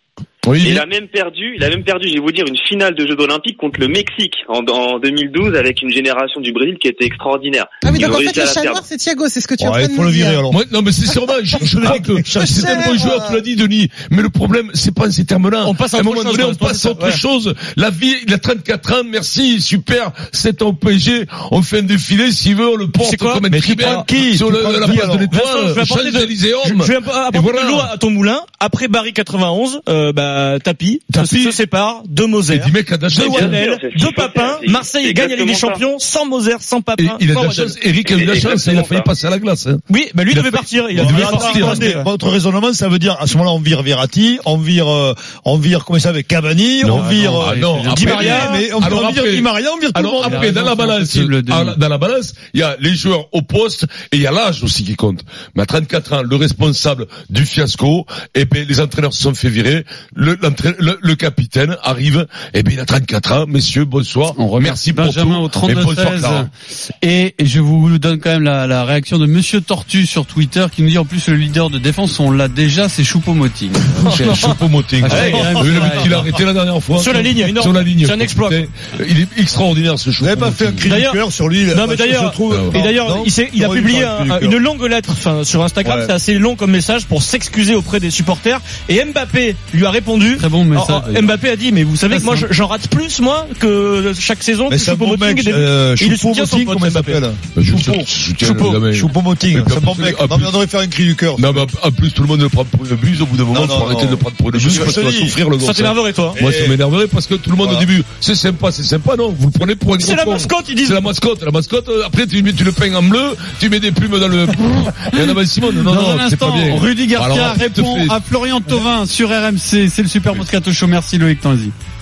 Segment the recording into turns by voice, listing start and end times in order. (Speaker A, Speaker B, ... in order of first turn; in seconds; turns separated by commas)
Speaker A: 0.5-0.8, Speaker B: 0.6-8.8, Speaker C: 7.8-10.4, Speaker D: 9.6-10.6, Speaker A: 10.5-27.9, Speaker D: 11.7-12.9, Speaker C: 11.8-13.4, Speaker E: 15.6-17.2, Speaker E: 23.0-24.1, Speaker D: 23.5-25.3, Speaker E: 25.3-37.7, Speaker A: 31.1-31.5, Speaker A: 32.5-33.6, Speaker B: 33.1-35.8, Speaker A: 37.0-42.0, Speaker B: 38.0-39.1, Speaker E: 39.9-42.0, Speaker D: 40.9-50.6, Speaker A: 46.8-66.5, Speaker F: 46.9-48.6, Speaker F: 50.2-51.8, Speaker F: 64.3-66.5, Speaker F: 67.0-76.2, Speaker E: 74.0-76.0, Speaker A: 74.0-80.9, Speaker E: 77.0-78.6, Speaker D: 80.2-84.6, Speaker E: 80.8-81.2, Speaker E: 81.7-97.2, Speaker A: 82.5-82.8, Speaker D: 85.8-86.1, Speaker F: 90.3-91.3, Speaker F: 92.1-92.5, Speaker D: 94.7-101.7, Speaker A: 97.5-100.5, Speaker E: 98.4-98.8, Speaker A: 101.4-118.2, Speaker D: 103.5-105.4, Speaker E: 104.7-105.0, Speaker E: 105.6-106.4, Speaker D: 106.4-106.8, Speaker D: 107.6-107.9, Speaker E: 110.0-111.0, Speaker F: 115.9-121.7